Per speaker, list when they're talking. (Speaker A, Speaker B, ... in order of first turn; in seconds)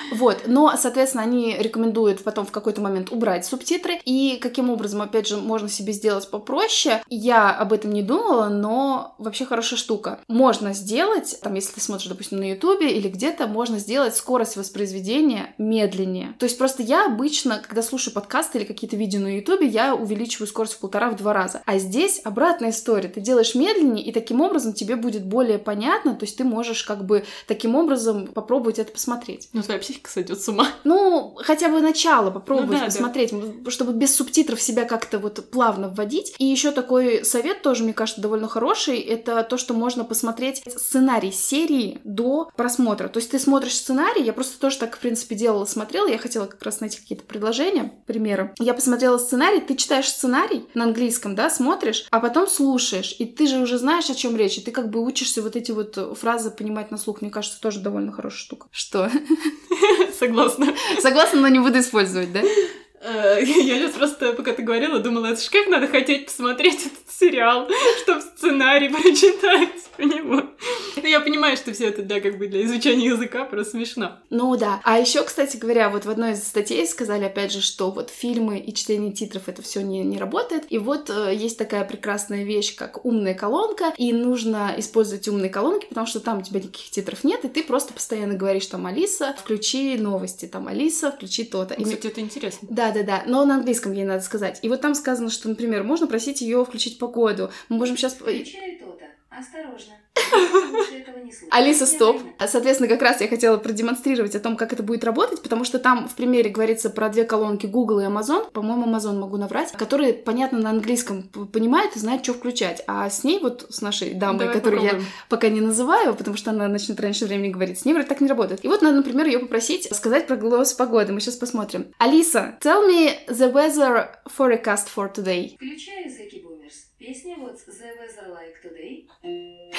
Speaker A: 0.1-29.5, 30.8-59.5, 60.9-62.5, 74.3-92.0, 92.7-98.5, 100.3-100.6, 101.5-125.5
Speaker B: 29.5-30.8, 32.5-33.1, 59.7-61.0, 62.6-74.2, 91.8-92.7, 114.3-115.1
Speaker C: 98.3-102.3, 125.6-129.1